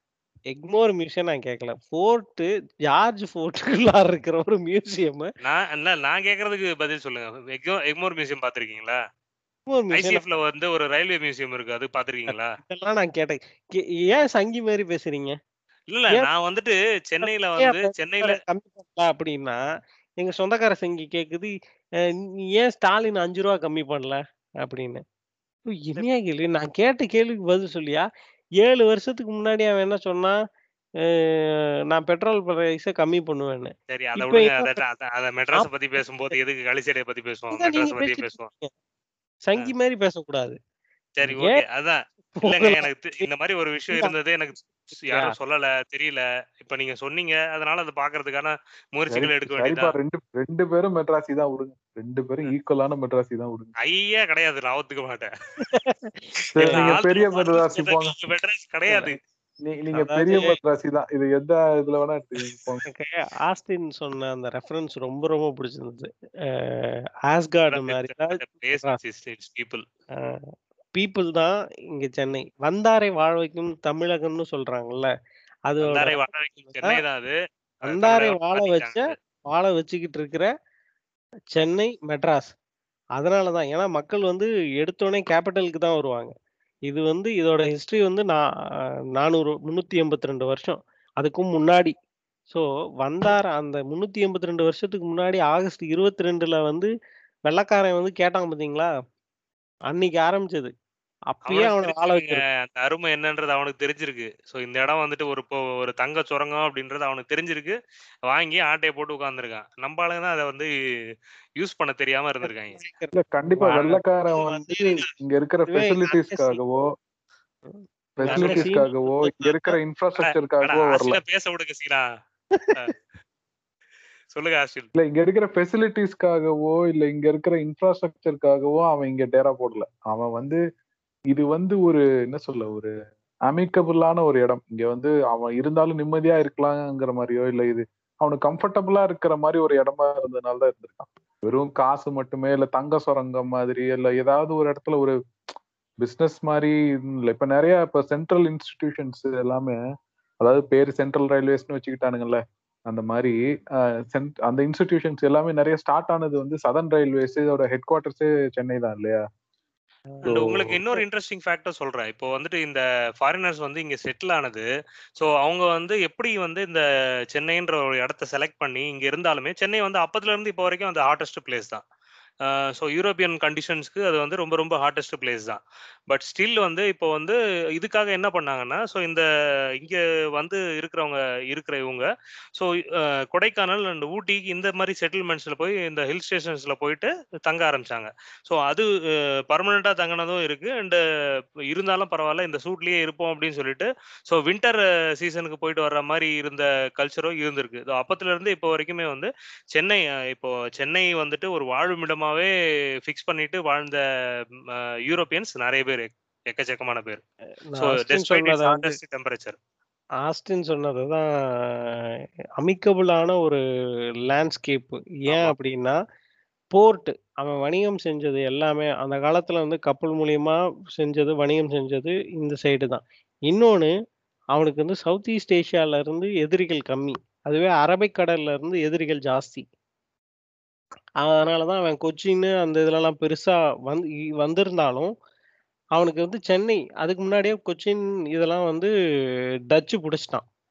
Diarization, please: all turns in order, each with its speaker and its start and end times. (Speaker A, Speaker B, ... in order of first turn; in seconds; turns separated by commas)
Speaker A: 0.5-5.3, Speaker B: 5.4-9.0, Speaker A: 9.7-10.2, Speaker B: 9.9-12.6, Speaker A: 12.3-15.4, Speaker B: 15.9-18.4, Speaker A: 17.2-19.6, Speaker A: 20.2-21.5, Speaker A: 22.5-25.0, Speaker A: 25.7-28.1, Speaker A: 28.6-30.4, Speaker A: 31.1-34.7, Speaker B: 33.9-38.5, Speaker A: 37.5-38.7, Speaker A: 39.5-40.6, Speaker B: 41.2-49.9, Speaker A: 41.3-41.6, Speaker A: 42.4-43.3, Speaker A: 45.0-45.4, Speaker C: 49.1-53.7, Speaker B: 53.8-55.3, Speaker A: 55.6-56.9, Speaker C: 56.6-58.1, Speaker B: 56.6-59.2, Speaker A: 58.9-59.2, Speaker C: 59.6-62.8, Speaker A: 60.0-60.6, Speaker A: 62.9-69.0, Speaker B: 67.7-69.8, Speaker A: 71.0-75.1, Speaker A: 75.7-77.0, Speaker B: 75.8-79.1, Speaker A: 77.9-80.5, Speaker A: 81.5-82.5, Speaker A: 83.2-86.3, Speaker A: 86.9-88.4, Speaker A: 89.2-91.9, Speaker A: 92.5-96.9, Speaker A: 97.5-98.9, Speaker A: 99.9-100.7, Speaker A: 101.3-102.4, Speaker B: 101.5-107.8, Speaker B: 108.3-110.7, Speaker B: 111.6-112.8, Speaker A: 112.5-115.1, Speaker C: 113.1-116.8, Speaker A: 115.7-116.6, Speaker A: 117.7-119.5, Speaker C: 118.2-121.2, Speaker B: 118.3-118.7, Speaker B: 120.2-122.0, Speaker B: 124.3-124.9, Speaker C: 125.0-130.6, Speaker C: 131.3-132.9, Speaker C: 133.5-145.2, Speaker C: 146.0-149.8, Speaker C: 150.4-153.3, Speaker C: 154.1-159.2, Speaker A: 160.2-161.0, Speaker B: 160.2-164.7, Speaker C: 160.3-160.8, Speaker B: 165.2-171.8, Speaker B: 172.5-179.2, Speaker B: 179.8-188.9, Speaker B: 189.5-191.0, Speaker B: 191.7-202.5, Speaker B: 203.0-204.0, Speaker B: 204.7-207.2, Speaker A: 207.7-208.9, Speaker B: 207.8-209.6, Speaker A: 210.2-212.0, Speaker A: 212.6-213.6, Speaker A: 214.3-216.0, Speaker B: 215.3-215.5, Speaker A: 216.7-223.9, Speaker A: 224.5-229.7, Speaker A: 231.2-235.1, Speaker A: 236.0-238.9, Speaker A: 239.7-240.4